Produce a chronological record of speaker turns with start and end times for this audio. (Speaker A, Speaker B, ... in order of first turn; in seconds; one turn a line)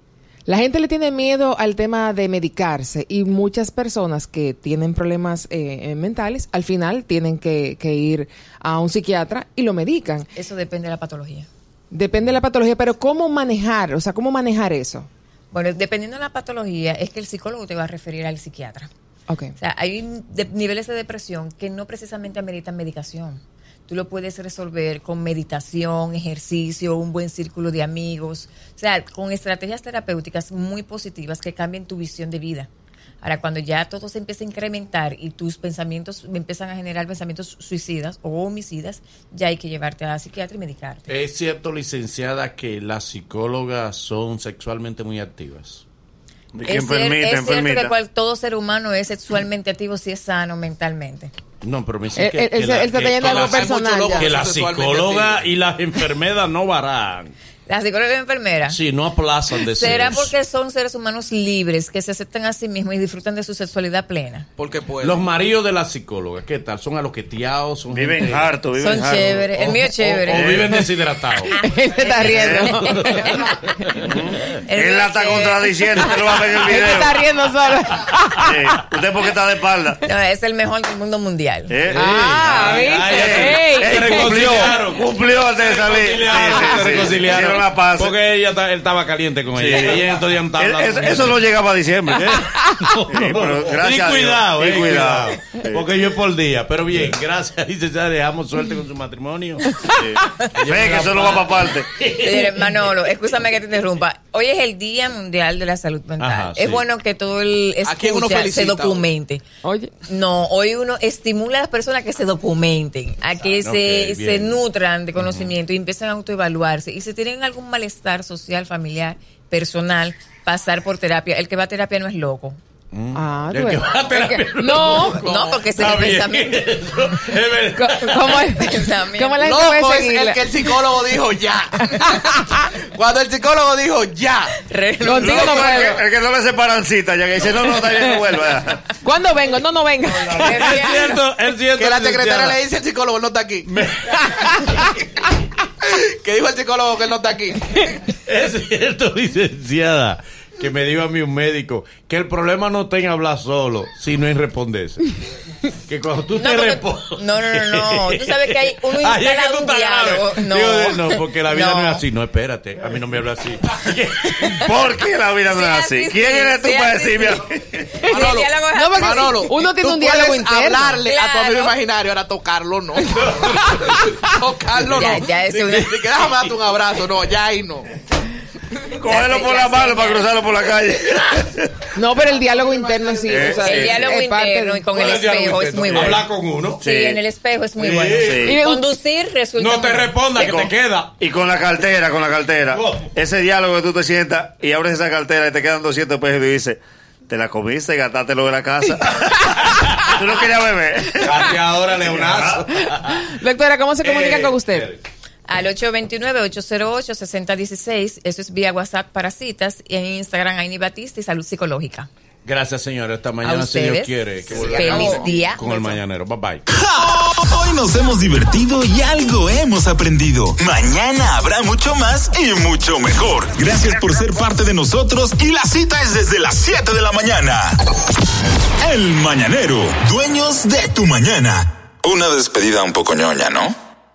Speaker A: 0.5-10.3
Speaker B: 10.3-11.5
Speaker A: 11.9-15.1
Speaker B: 15.5-18.9
Speaker A: 19.3-19.5
Speaker B: 19.6-32.7
Speaker B: 33.2-41.1
Speaker C: 41.1-45.8
Speaker D: 46.5-47.9
Speaker B: 46.7-51.3
Speaker C: 51.6-57.3
Speaker A: 52.1-54.4
Speaker E: 53.2-55.4
Speaker B: 57.7-58.8
Speaker C: 58.7-60.3
Speaker B: 59.6-64.5
Speaker E: 64.6-65.2
Speaker C: 65.0-68.5
Speaker D: 67.9-69.5
Speaker B: 68.8-70.7
Speaker C: 69.5-71.5
Speaker D: 70.3-70.7
Speaker B: 71.5-73.2
Speaker A: 71.5-73.3
Speaker D: 72.3-72.8
Speaker C: 72.7-74.0
Speaker D: 74.0-77.2
Speaker B: 74.6-76.2
Speaker A: 76.5-78.8
Speaker D: 78.4-80.0
Speaker B: 80.0-81.7
Speaker D: 81.7-88.2
Speaker C: 81.9-91.5
Speaker A: 81.9-84.6
Speaker A: 86.5-87.0
Speaker D: 89.5-92.3
Speaker C: 92.1-99.8
Speaker D: 93.1-95.9
Speaker D: 99.9-101.9
Speaker C: 100.5-102.7
Speaker B: 102.1-109.4
Speaker C: 106.2-106.9
Speaker E: 107.8-109.1
Speaker A: 109.6-109.9
Speaker B: 110.0-122.6
Speaker C: 113.6-114.6
Speaker C: 115.2-115.5
Speaker C: 122.9-128.4
Speaker A: 123.1-125.2
Speaker B: 125.2-126.6
Speaker A: 127.8-130.6
Speaker B: 128.2-129.5
Speaker E: 129.4-134.5
Speaker A: 131.9-132.6
Speaker B: 134.5-135.9
Speaker A: 135.0-136.0
Speaker D: 135.2-138.8
Speaker A: 137.8-138.2
Speaker A: 139.0-140.8
Speaker B: 140.3-141.2
Speaker C: 140.3-142.6
Speaker E: 141.8-143.7
Speaker C: 143.7-144.8
Speaker E: 145.8-147.9
Speaker C: 148.1-155.1
Speaker C: 155.9-164.8
Speaker B: 156.4-162.0
Speaker D: 164.6-168.0
Speaker B: 165.5-167.4
Speaker B: 168.0-169.4
Speaker E: 168.1-177.9
Speaker A: 168.7-171.0
Speaker B: 171.0-171.8
Speaker B: 174.9-176.0
Speaker C: 176.2-176.5
Speaker D: 178.9-181.9
Speaker B: 179.1-180.3
Speaker A: 181.9-184.9
Speaker D: 183.3-184.1
Speaker B: 183.6-186.2
Speaker C: 184.9-186.8
Speaker D: 185.8-186.2
Speaker B: 186.8-190.6
Speaker D: 186.8-187.2
Speaker C: 187.8-188.4
Speaker D: 188.2-188.6
Speaker A: 188.4-188.8
Speaker C: 189.6-191.1
Speaker D: 190.3-201.5
Speaker C: 192.7-193.1
Speaker C: 199.7-200.0
Speaker C: 201.2-203.3
Speaker D: 202.1-202.6
Speaker A: 202.9-204.9
Speaker C: 204.0-205.0
Speaker B: 205.5-212.1
Speaker C: 212.4-216.7
Speaker B: 213.4-216.0
Speaker E: 214.7-215.0
Speaker F: 216.7-227.8
Speaker F: 228.8-233.7